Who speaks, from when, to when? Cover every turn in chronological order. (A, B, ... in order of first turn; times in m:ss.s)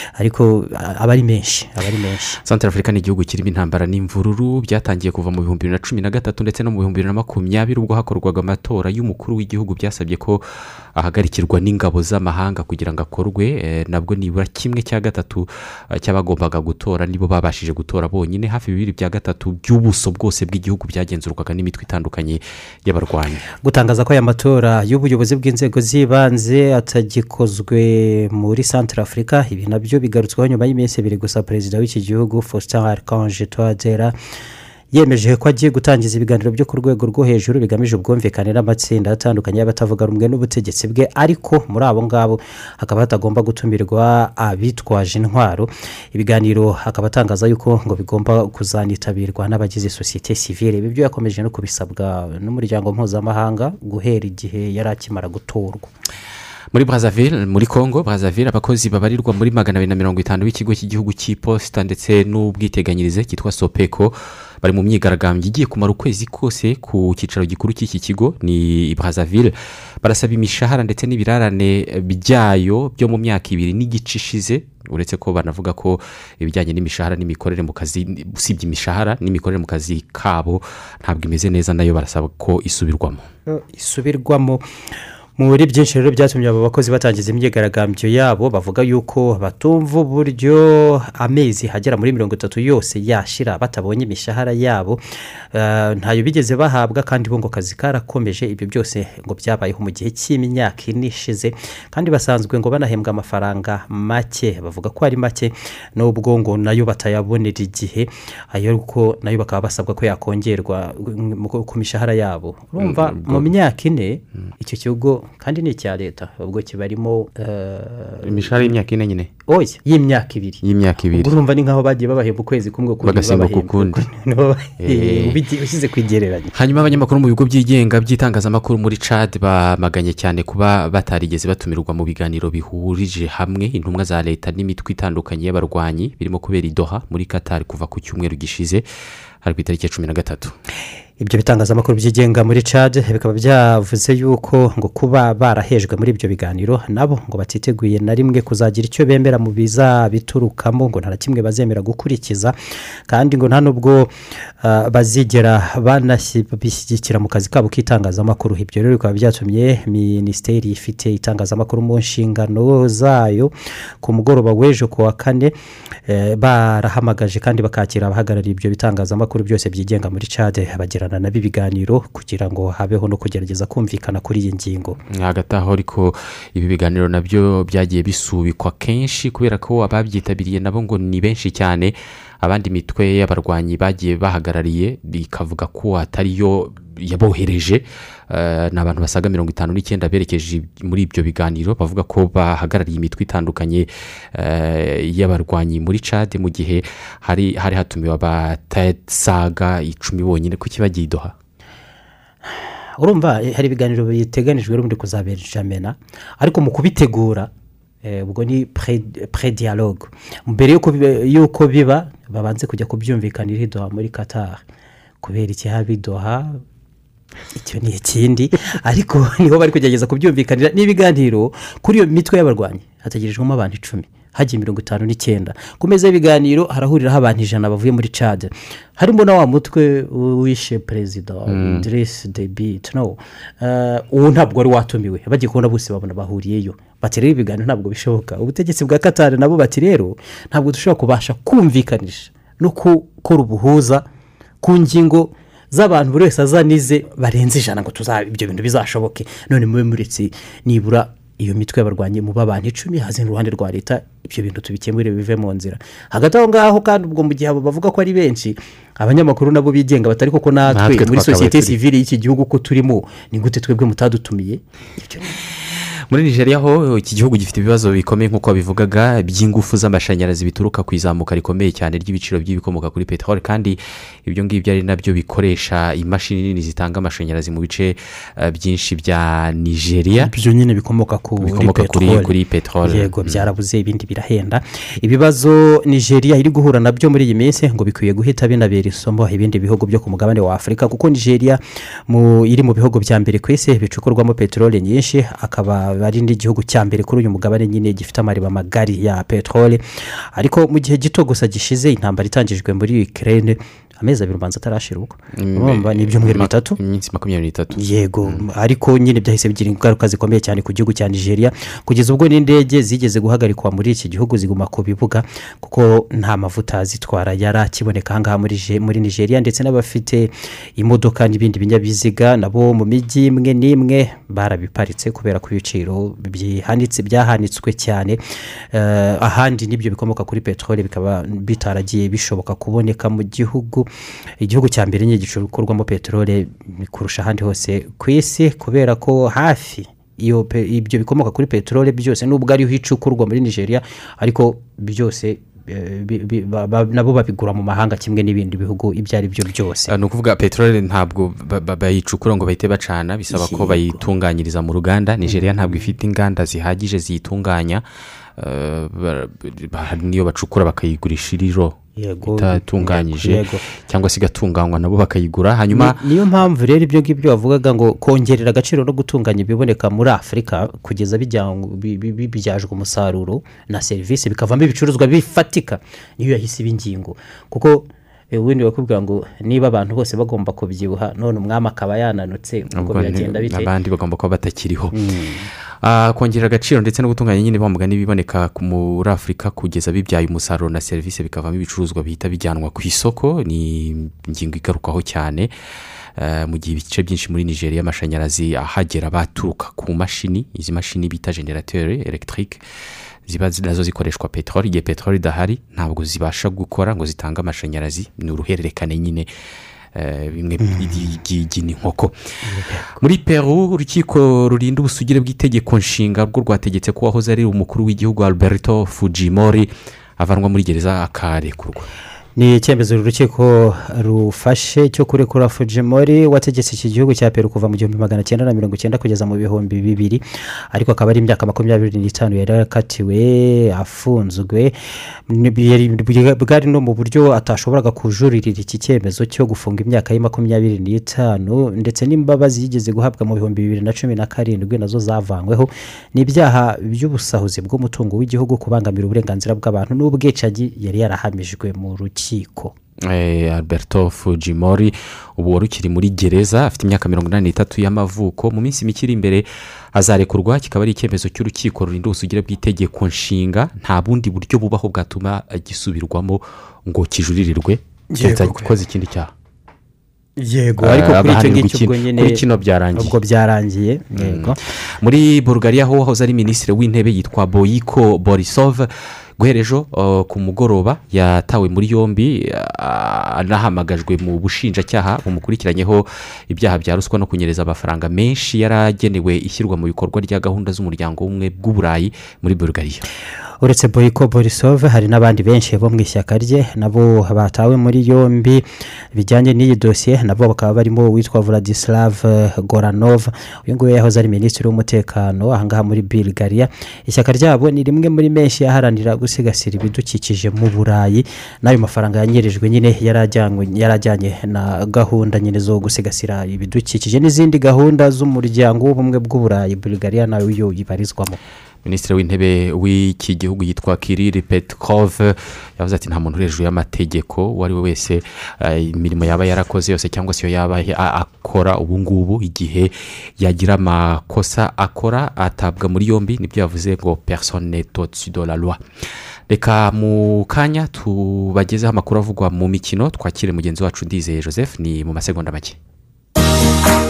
0:00.2-0:02.4 A
0:02.4-0:23.4 B
0:23.6-0:34.1 A
0:34.9-0:55.9 A
0:56.7-1:23.3 B
1:23.5-1:24.6 A
1:25.4-1:35.0 A
1:35.5-1:58.7 A
1:52.8-1:53.5 B
1:58.2-1:59.3 B
1:59.4-2:06.5 A
2:00.6-2:01.3 B
2:03.0-2:04.0 B
2:04.8-2:05.4 B
2:06.5-2:18.8 B
2:19.4-2:20.5 B
2:21.2-2:32.6 A
2:33.1-2:45.5 A
2:46.0-2:55.0 A
2:55.1-3:21.3 B
3:23.0-3:27.5 A
3:28.0-3:34.6 A
3:35.2-3:36.6 A
3:37.5-4:04.0 A
3:51.5-3:51.8 B
4:04.6-4:25.3 A
4:20.7-4:21.8 B
4:26.1-4:40.3 B
4:40.2-4:59.8 A
4:41.4-4:43.5 B
5:00.3-5:06.8 A
5:05.4-5:08.4 B
5:07.7-5:28.2 A
5:28.7-5:33.9 A
5:34.4-5:49.9 A
5:49.9-5:57.8 B
5:53.3-5:54.0 A
5:55.2-5:55.9 A
5:58.4-6:06.0 B
6:02.0-6:03.6 A
6:05.7-6:23.7 A
6:22.7-6:25.0 B
6:24.9-6:25.5 A
6:25.8-6:35.5 B
6:36.2-6:42.6 B
6:43.2-6:49.3 B
6:49.9-6:52.1 B
6:50.6-6:51.1 A
6:52.4-6:53.0 A
6:53.0-7:01.8 B
7:02.4-7:14.7 A
7:15.3-7:32.7 A
7:33.1-7:49.3 B
7:48.1-7:48.7 A
7:50.4-7:52.4 A
7:50.8-7:53.2 B
7:53.0-7:54.6 A
7:54.1-8:13.0 B
8:13.6-8:41.4 A
8:41.8-8:58.8 B
8:59.5-9:05.8 B